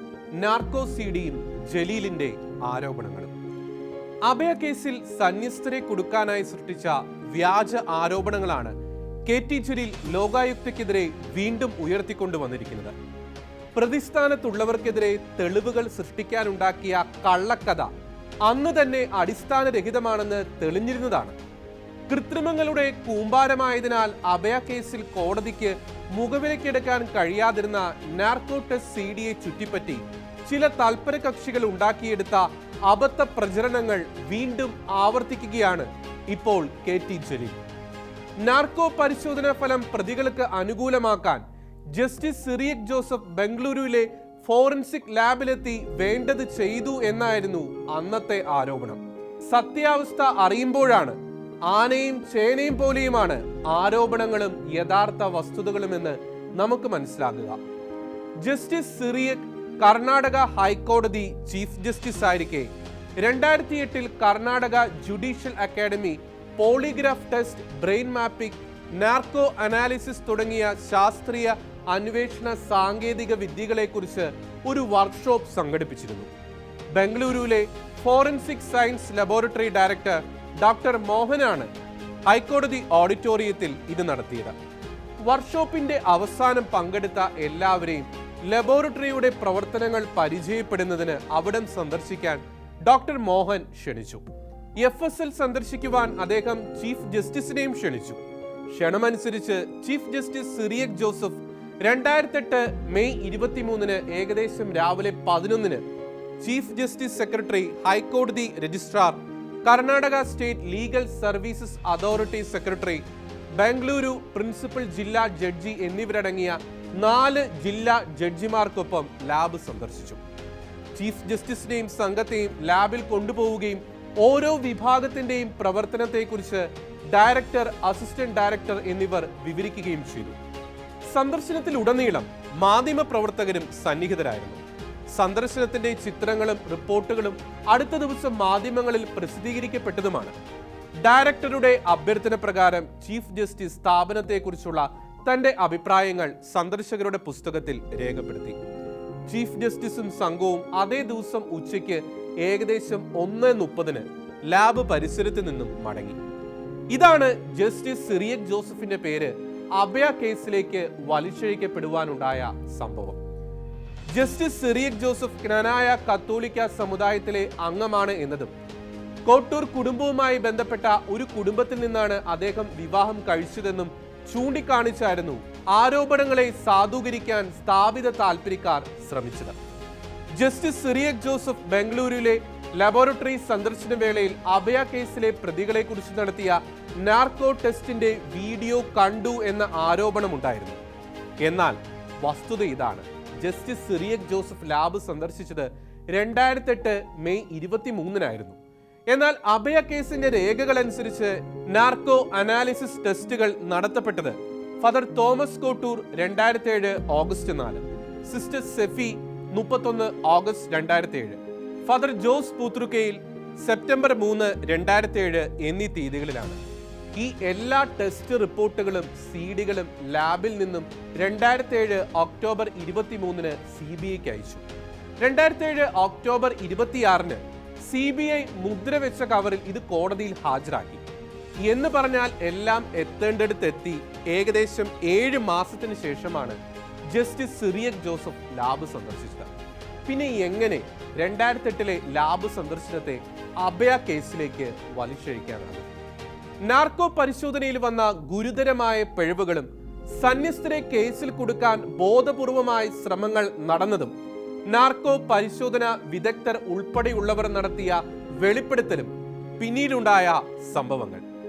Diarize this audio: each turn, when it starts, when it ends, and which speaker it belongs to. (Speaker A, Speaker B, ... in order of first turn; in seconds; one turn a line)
Speaker A: 0.4-3.3
Speaker A: 4.3-8.8
Speaker A: 9.3-12.9
Speaker A: 13.8-17.9
Speaker A: 18.4-21.4
Speaker A: 22.1-37.6
Speaker A: 38.4-41.4
Speaker A: 41.9-57.6
Speaker A: 58.4-76.3
Speaker A: 76.9-81.7
Speaker A: 82.3-84.5
Speaker A: 85.2-94.2
Speaker A: 94.8-98.2
Speaker A: 98.7-105.8
Speaker A: 106.4-113.0
Speaker A: 113.6-120.2
Speaker A: 121.0-130.4
Speaker A: 131.1-134.6
Speaker A: 135.1-140.3
Speaker A: 141.0-148.6
Speaker A: 149.3-156.2
Speaker A: 156.9-163.2
Speaker A: 164.1-168.5
Speaker A: 169.3-179.6
Speaker A: 180.3-190.8
Speaker A: 191.4-198.6
Speaker A: 199.1-216.6
Speaker A: 217.1-224.6
Speaker A: 225.2-231.0
Speaker A: 231.6-236.6
Speaker A: 237.1-239.5
Speaker A: 240.1-245.9
Speaker A: 246.6-254.1
Speaker A: 254.7-261.2